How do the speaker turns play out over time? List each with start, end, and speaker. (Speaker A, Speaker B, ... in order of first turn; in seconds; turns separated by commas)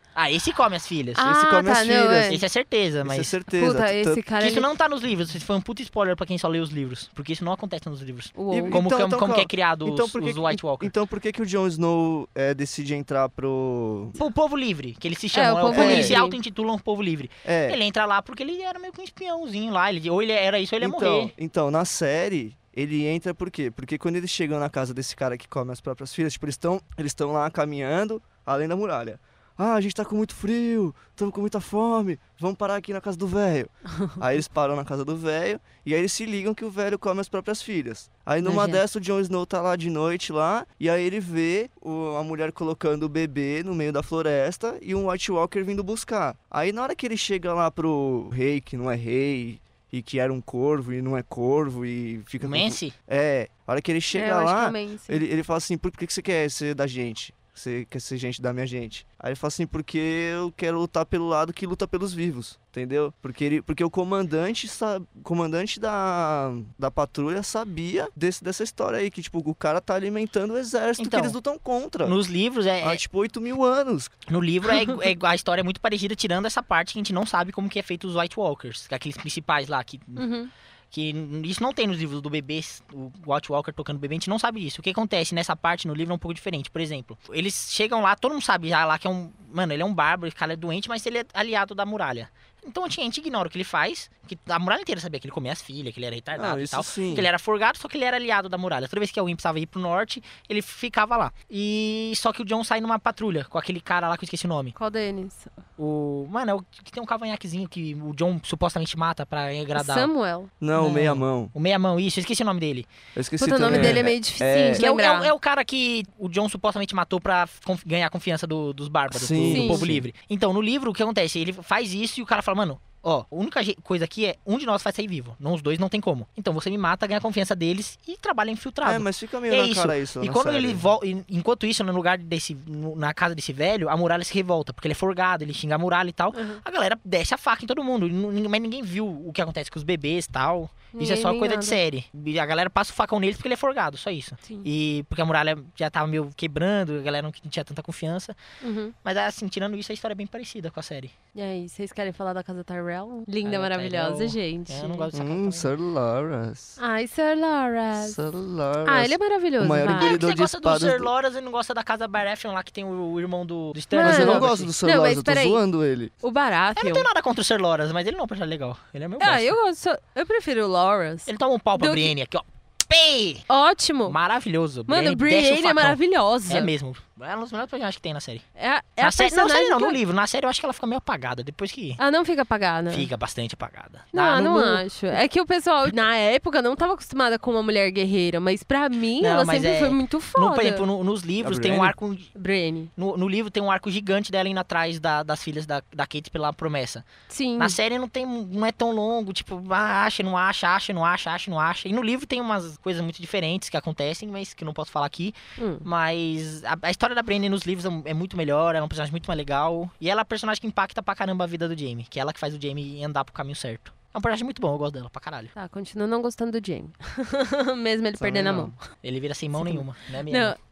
Speaker A: 0.1-1.2, Speaker B: 1.1-2.4, Speaker C: 1.2-2.4, Speaker A: 2.2-3.3, Speaker C: 3.0-4.2, Speaker B: 3.5-4.7, Speaker A: 4.4-10.9, Speaker B: 8.3-8.8, Speaker C: 8.5-14.2, Speaker A: 14.2-21.3, Speaker B: 15.3-16.4, Speaker C: 15.7-16.2, Speaker C: 17.4-17.8, Speaker C: 20.8-72.2, Speaker B: 38.4-38.8, Speaker A: 52.4-52.9, Speaker B: 54.1-55.2, Speaker A: 71.0-71.3, Speaker A: 72.0-73.0, Speaker C: 72.8-74.1, Speaker A: 74.3-80.3, Speaker B: 80.2-80.5, Speaker A: 80.9-104.7, Speaker C: 96.3-97.3, Speaker B: 104.8-105.5, Speaker A: 105.8-110.1, Speaker B: 109.7-110.5, Speaker C: 110.6-111.5, Speaker A: 110.8-112.9, Speaker C: 113.1-114.8, Speaker B: 113.4-115.3, Speaker A: 113.6-114.1, Speaker A: 114.7-148.3, Speaker C: 119.1-120.0, Speaker B: 119.5-119.9, Speaker C: 128.8-130.8, Speaker B: 136.3-136.6, Speaker B: 140.9-141.8, Speaker B: 148.6-148.9, Speaker A: 149.0-151.1, Speaker B: 151.3-155.1, Speaker A: 153.4-155.7, Speaker C: 155.1-156.8, Speaker B: 156.8-158.2, Speaker C: 158.0-161.1, Speaker B: 158.8-160.2, Speaker A: 159.9-164.7, Speaker B: 163.9-165.6, Speaker C: 164.0-166.1, Speaker B: 166.2-167.1, Speaker A: 166.8-169.6, Speaker B: 169.2-172.1, Speaker A: 171.3-173.4, Speaker B: 173.5-174.2, Speaker A: 174.1-178.4, Speaker B: 174.9-176.7, Speaker B: 178.6-180.0, Speaker A: 179.0-182.0, Speaker B: 182.0-183.1, Speaker A: 182.9-184.8, Speaker B: 184.1-190.8, Speaker A: 189.2-192.3, Speaker C: 191.4-191.9, Speaker B: 192.3-192.9, Speaker A: 193.0-197.1, Speaker B: 197.3-197.8, Speaker A: 197.6-215.5, Speaker B: 205.6-205.8, Speaker B: 215.6-218.8, Speaker C: 218.2-218.8, Speaker A: 219.0-220.6, Speaker B: 219.5-220.6